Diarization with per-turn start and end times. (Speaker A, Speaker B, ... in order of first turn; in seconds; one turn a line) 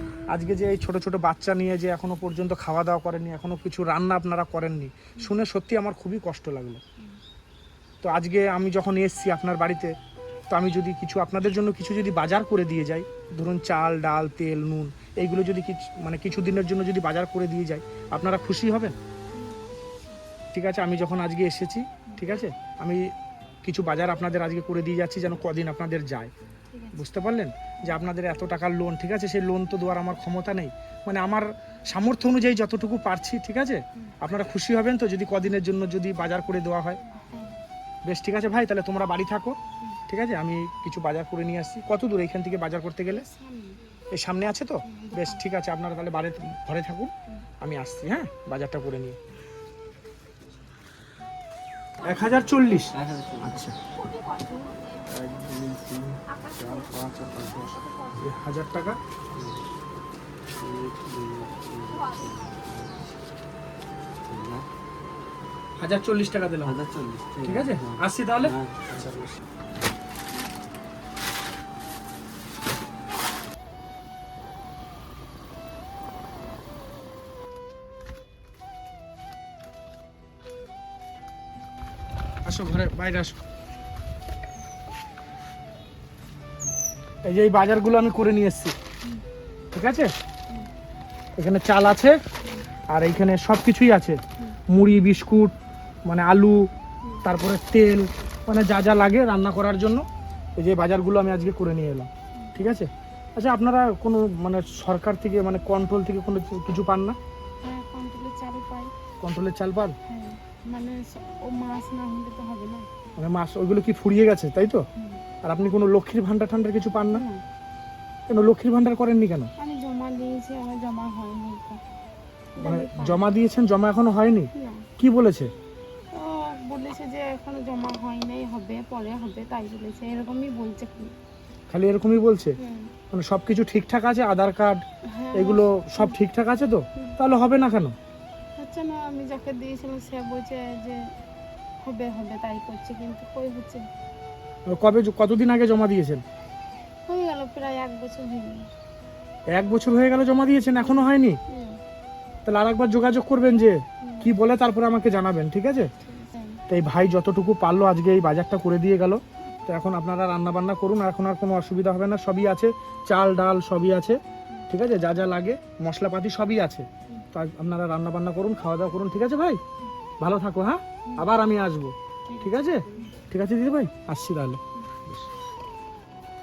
Speaker A: 0.3-6.8
Speaker A: 8.0-9.9
Speaker A: 10.5-18.9
Speaker B: 19.3-20.1
Speaker A: 20.5-23.1
Speaker A: 23.6-26.3
Speaker B: 26.7-27.0
Speaker A: 26.9-37.0
Speaker B: 37.1-37.5
Speaker A: 38.1-39.5
Speaker A: 40.1-43.2
Speaker B: 43.1-43.8
Speaker A: 44.1-47.1
Speaker B: 44.9-45.4
Speaker A: 47.6-49.2
Speaker A: 52.0-53.8
Speaker B: 52.1-52.8
Speaker C: 52.9-53.6
Speaker B: 53.9-55.1
Speaker C: 55.1-57.8
Speaker B: 56.3-58.2
Speaker A: 58.1-59.0
Speaker C: 59.3-59.6
Speaker C: 60.6-63.1
Speaker B: 61.9-63.0
Speaker C: 64.2-64.7
Speaker A: 65.8-66.8
Speaker C: 66.6-69.3
Speaker A: 67.4-68.5
Speaker A: 82.4-83.3
Speaker A: 87.2-88.7
Speaker A: 89.7-90.1
Speaker A: 91.4-92.2
Speaker A: 92.9-94.2
Speaker A: 94.7-95.5
Speaker A: 96.0-96.7
Speaker A: 97.2-100.0
Speaker A: 100.6-107.2
Speaker B: 107.6-108.9
Speaker A: 109.2-110.0
Speaker B: 110.1-112.9
Speaker A: 113.2-114.8
Speaker A: 115.4-117.2
Speaker B: 117.1-117.4
Speaker A: 118.3-119.5
Speaker B: 119.6-121.8
Speaker B: 122.5-123.4
Speaker A: 122.6-125.5
Speaker B: 124.5-124.8
Speaker B: 126.1-131.1
Speaker A: 131.7-132.6
Speaker B: 132.6-132.9
Speaker A: 133.1-134.8
Speaker B: 135.1-136.2
Speaker A: 135.3-137.9
Speaker B: 138.6-141.0
Speaker B: 141.8-143.8
Speaker A: 144.7-146.2
Speaker B: 147.1-148.7
Speaker A: 149.5-151.4
Speaker B: 150.7-151.8
Speaker A: 152.4-155.9
Speaker B: 154.0-154.3
Speaker B: 156.0-156.6
Speaker A: 156.7-169.6
Speaker A: 170.2-175.2
Speaker B: 172.3-173.1